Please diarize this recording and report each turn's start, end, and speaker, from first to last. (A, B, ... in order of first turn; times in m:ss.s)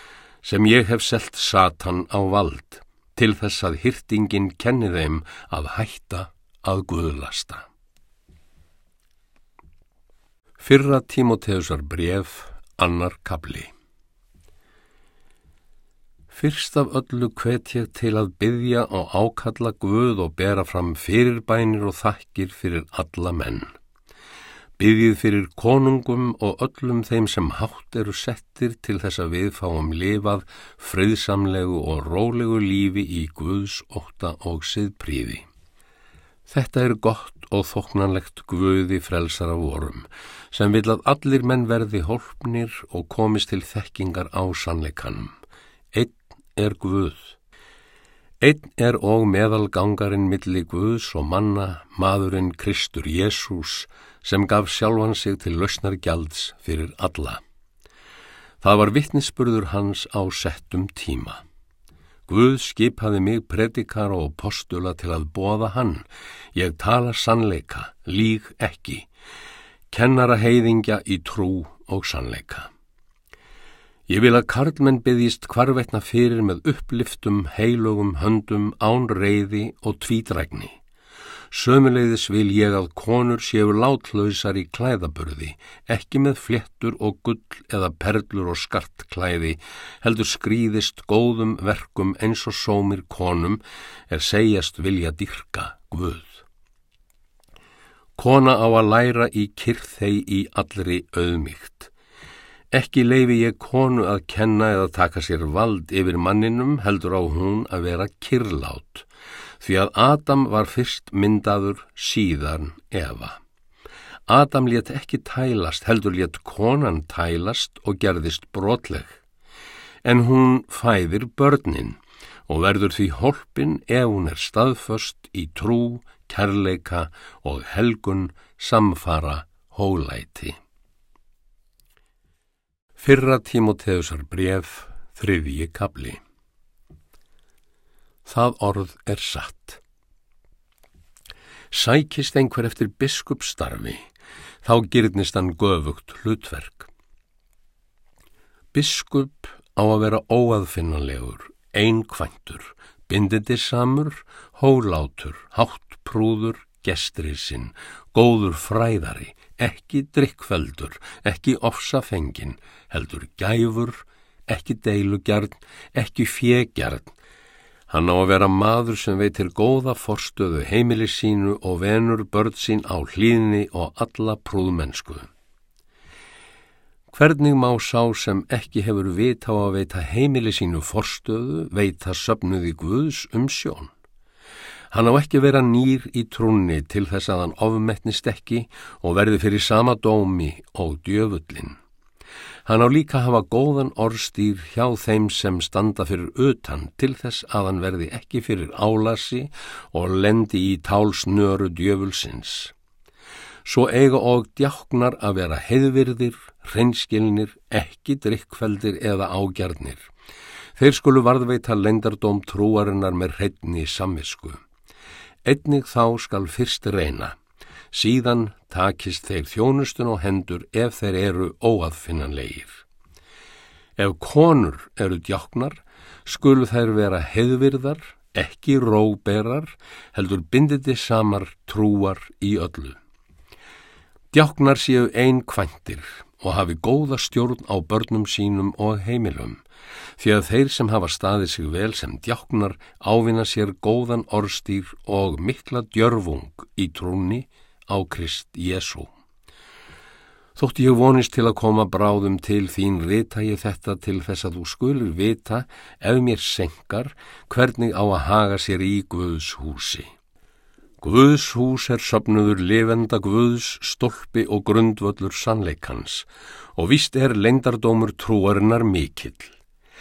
0:00.4-0:07.6 A
0:10.6-0:13.7 A
0:16.3-0:23.7 A
0:24.8-0:35.4 A
0:36.5-0:45.3 A
0:45.9-0:47.4 A
0:48.4-0:57.4 A
0:58.6-1:01.4 A
1:02.3-1:09.1 A
1:09.9-1:12.7 A
1:14.1-1:20.8 A
1:21.5-1:36.4 A
1:38.2-1:41.9 A
1:42.7-1:49.1 A
1:49.6-1:53.4 A
1:54.3-1:59.2 A
2:00.0-2:10.6 A
2:13.0-2:16.2 A
2:18.2-2:19.8 A
2:21.7-2:24.0 A
2:24.6-2:26.9 A
2:28.7-2:47.1 A
2:47.9-2:55.3 A
2:57.1-3:03.9 A
3:04.9-3:11.8 A
3:12.6-3:22.7 A
3:23.6-3:30.1 A
3:30.8-3:34.6 A
3:35.4-3:37.3 A
3:37.9-3:42.8 A
3:44.0-3:53.0 A
3:54.3-3:59.6 A
4:00.2-4:09.1 A
4:10.6-4:20.1 A
4:21.0-4:29.5 A